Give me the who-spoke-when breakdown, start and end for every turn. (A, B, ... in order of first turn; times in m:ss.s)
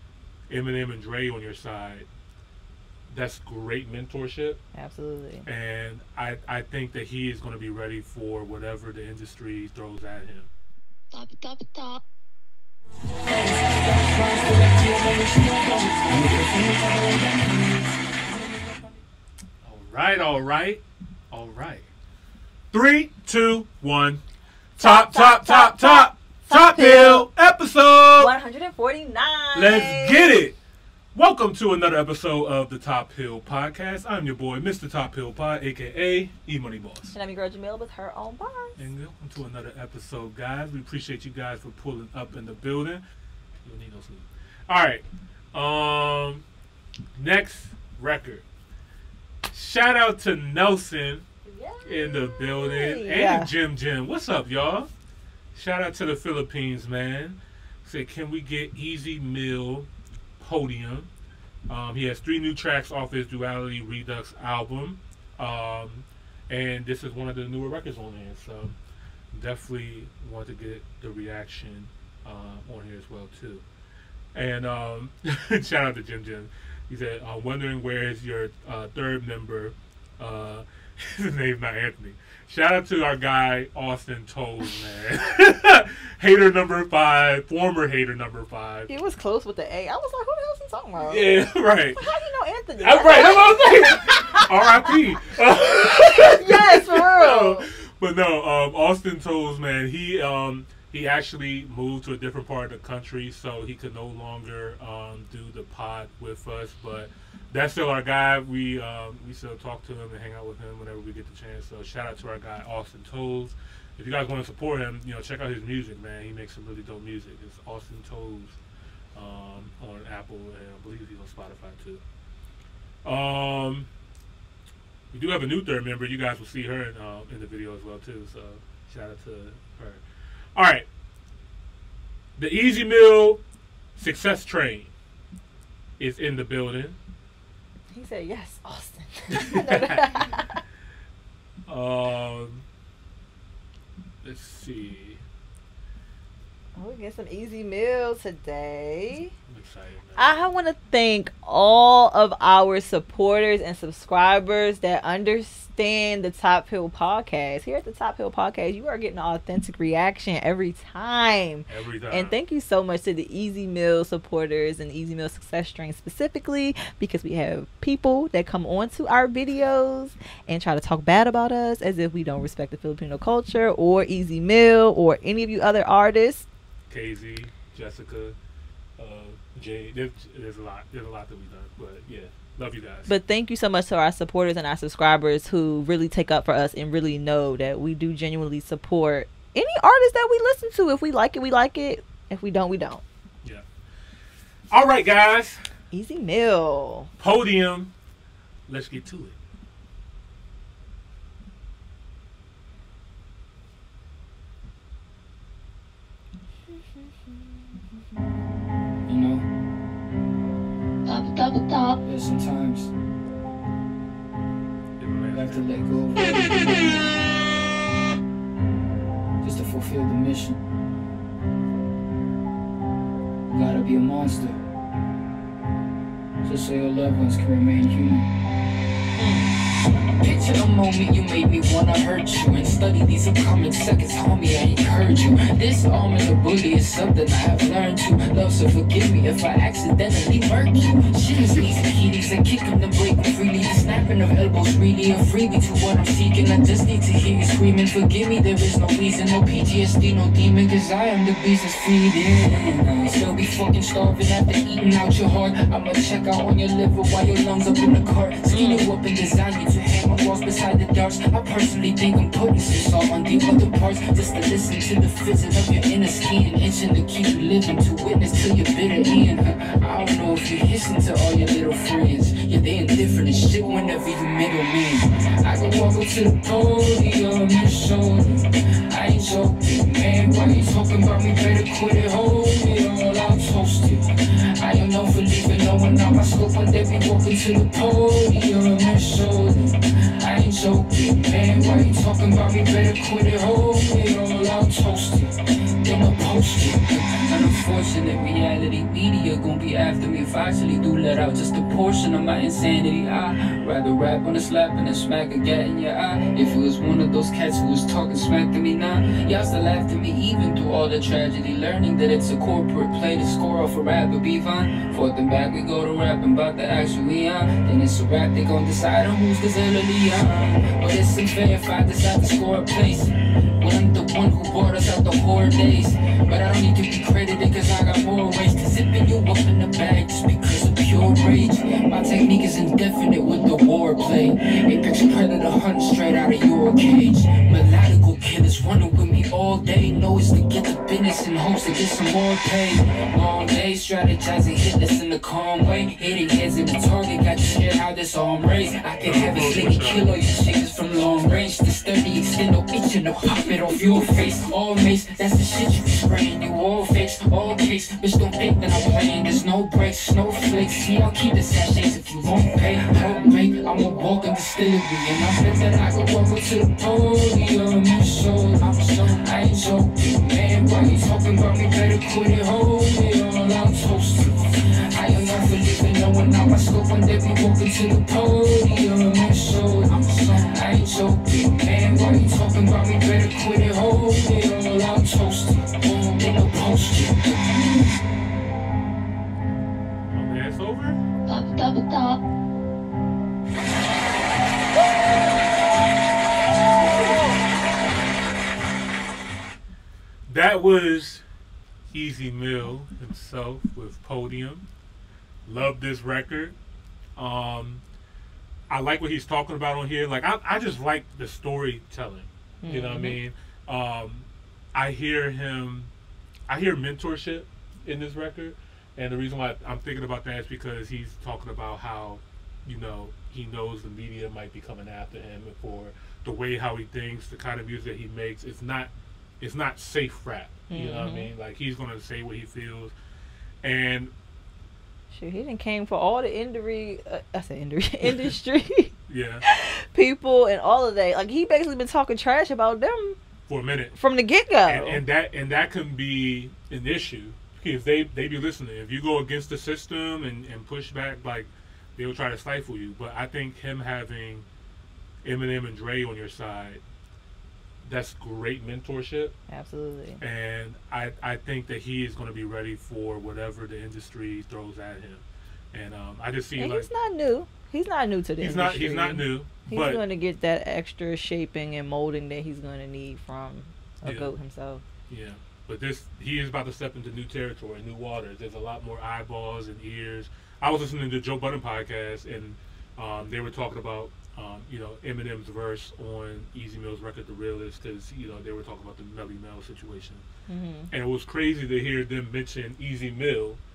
0:00.5-0:02.1 A
0:03.1-0:04.6 A
0:04.7-0:05.5 B
0:05.4-0:10.5 A
0:11.1-0:12.0 C
0:13.3-0:17.9 D
0:19.6-0:21.9 A
0:22.7-0:24.2 A
0:24.8-0:28.3 A
0:24.8-0:27.2 B
0:28.1-0:30.4 B
0:29.5-0:30.6 A
0:31.1-0:37.1 A
0:37.1-0:38.8 B
0:38.8-0:43.0 A
0:43.6-0:46.4 A
0:47.2-0:48.4 A
0:49.5-0:51.2 A
0:51.4-0:53.5 B
0:51.8-0:54.9 A
0:55.5-1:01.1 A
1:01.7-1:08.8 A
1:09.3-1:13.6 A
1:14.3-1:28.9 A
1:28.9-1:31.4 B
1:31.0-1:32.0 A
1:32.0-1:34.6 B
1:32.8-1:58.6 A
1:35.3-1:37.7 B
1:59.1-2:02.0 A
2:03.0-2:03.9 A
2:05.1-2:10.0 A
2:10.6-2:10.9 A
2:12.4-2:13.4 A
2:14.0-2:14.9 A
2:16.0-2:17.0 A
2:17.9-2:20.6 B
2:19.3-2:20.3 A
2:21.7-2:22.6 A
2:24.2-2:25.2 A
2:26.8-2:29.3 B
2:29.5-2:30.5 A
2:30.2-2:56.4 B
2:41.7-2:42.4 A
2:56.9-2:58.4 A
2:59.0-3:03.1 A
3:03.1-3:13.0 B
3:14.7-3:15.6 A
3:15.9-3:17.1 B
3:17.2-3:17.9 A
3:18.7-3:19.4 A
3:29.1-3:29.4 D
3:31.0-3:31.9 C
3:32.0-3:32.9 D
3:35.0-3:36.9 A
3:35.3-3:37.2 D
3:39.4-3:40.6 D
3:43.5-3:44.6 D
3:46.4-3:48.2 D
3:49.2-3:49.5 B
3:50.2-4:44.0 D
4:18.5-4:18.9 B
4:44.6-6:27.9 D
5:49.0-5:50.0 A
6:30.1-6:31.0 A
6:31.3-6:32.2 C
6:40.3-6:41.2 A
6:41.9-6:44.6 A
6:45.4-6:46.6 A
6:47.2-6:47.8 A
6:48.7-6:55.9 A
6:52.6-6:53.2 B
6:56.5-7:12.9 A
7:10.7-7:11.3 B
7:13.6-7:14.1 A
7:15.1-7:18.9 B
7:19.1-7:19.4 A
7:19.4-7:23.2 B
7:23.5-7:24.0 A
7:23.9-7:25.0 B
7:24.7-7:34.5 A
7:35.2-7:36.8 A
7:37.8-7:39.3 A
7:39.5-7:40.2 B
7:40.2-7:46.9 A
7:46.6-7:54.8 B
7:48.4-7:50.0 A
7:54.0-7:54.3 A
7:55.1-8:10.2 A
8:10.5-8:10.9 B
8:10.9-8:13.6 A